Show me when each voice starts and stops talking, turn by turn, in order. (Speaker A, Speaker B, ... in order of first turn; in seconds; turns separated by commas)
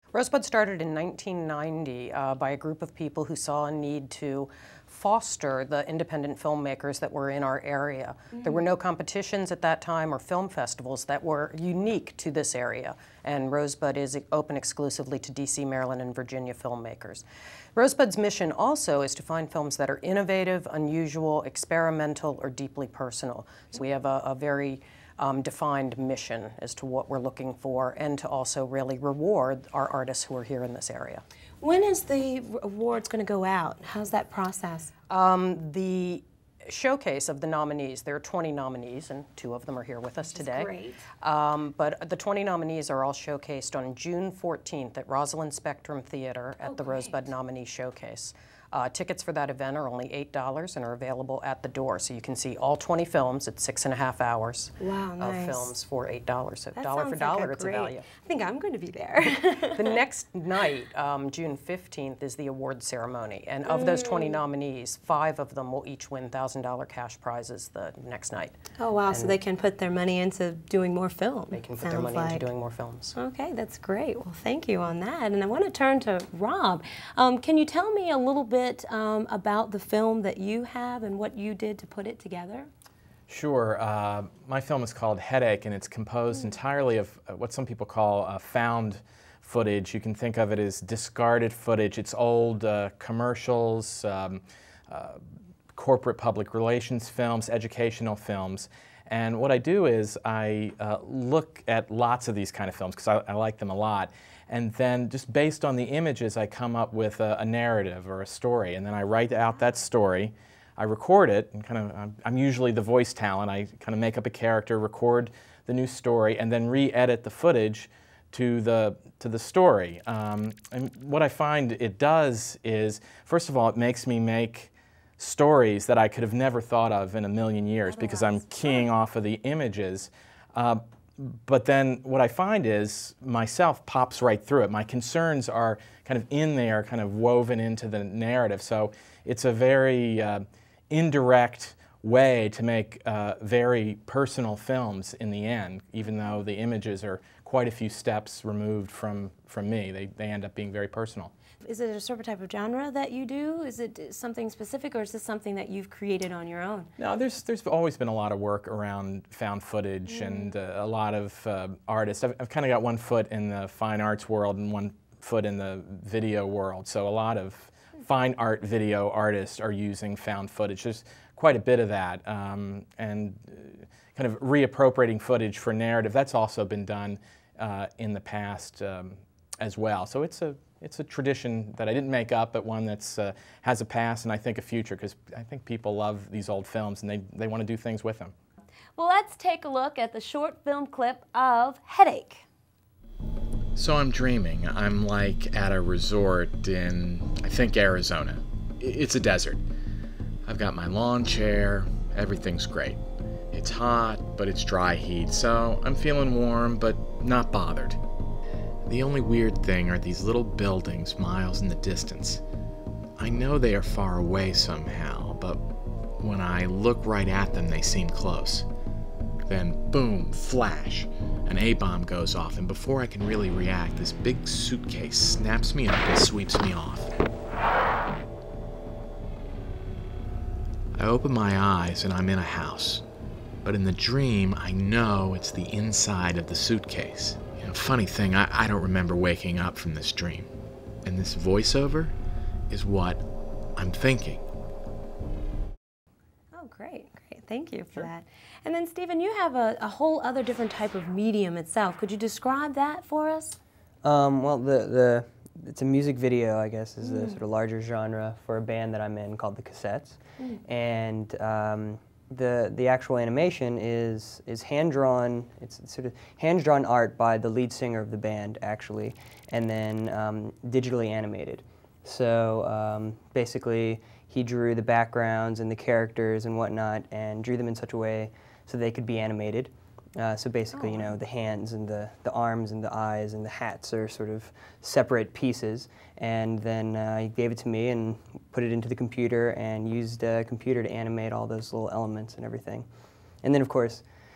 Speaker A: 0.1-17.2, Speaker A: 17.7-31.2, Speaker B: 31.6-34.9, Speaker A: 35.1-40.7, Speaker B: 40.4-41.0, Speaker A: 41.2-58.0, Speaker B: 46.6-47.2, Speaker B: 54.8-55.7, Speaker B: 56.8-60.0, Speaker A: 59.7-68.5, Speaker B: 63.7-64.4, Speaker B: 68.8-72.5, Speaker C: 69.1-69.4, Speaker A: 71.5-73.1, Speaker B: 73.1-82.7, Speaker D: 83.3-95.2, Speaker D: 95.7-151.3, Speaker B: 127.8-128.9, Speaker B: 151.6-156.9, Speaker D: 157.0-188.3, Speaker B: 188.9-192.4, Speaker D: 193.7-199.6, Speaker D: 200.4-203.0, Speaker D: 203.5-208.0, Speaker D: 208.8-212.4, Speaker D: 213.2-215.6, Speaker D: 216.2-218.7, Speaker D: 219.4-227.1, Speaker D: 230.9-233.0, Speaker D: 233.6-240.5, Speaker D: 241.0-242.1, Speaker D: 242.7-243.2, Speaker D: 243.8-244.4, Speaker B: 246.5-253.6, Speaker C: 254.0-292.9, Speaker B: 257.0-257.4, Speaker B: 280.7-281.2, Speaker C: 293.4-294.0